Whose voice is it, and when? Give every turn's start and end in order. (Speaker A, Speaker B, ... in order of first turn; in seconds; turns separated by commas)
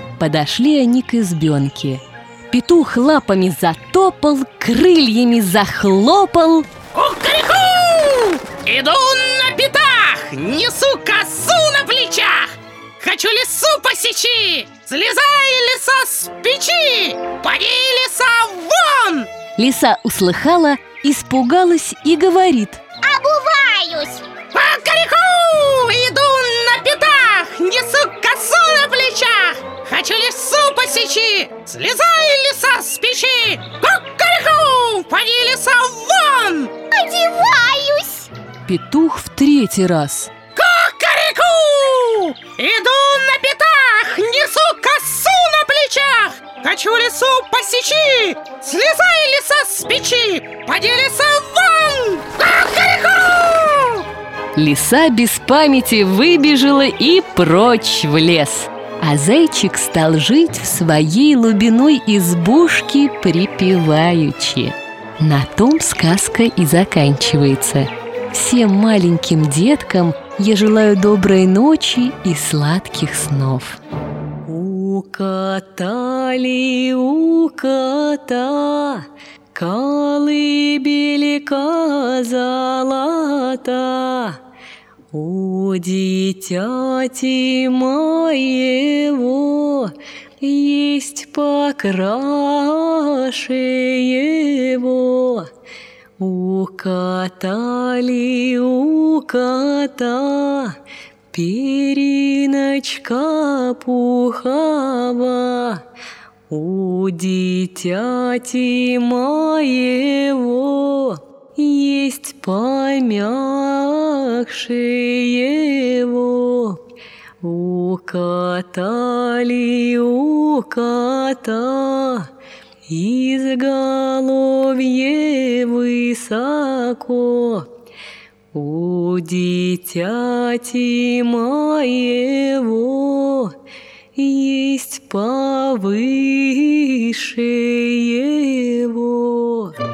Speaker A: 0.2-6.7, Speaker B: 6.9-19.3, Speaker A: 19.6-22.8, Speaker C: 23.0-24.2, Speaker B: 24.5-36.7, Speaker C: 36.9-38.3, Speaker A: 38.6-40.3, Speaker B: 40.5-54.0, Speaker A: 54.5-73.8, Speaker A: 74.4-84.4, Speaker A: 85.1-95.5, Speaker A: 96.2-100.8, Speaker A: 101.3-105.8, Speaker A: 106.5-116.8, Speaker A: 117.4-122.3, Speaker A: 122.9-127.7, Speaker A: 128.5-133.5, Speaker A: 134.2-139.7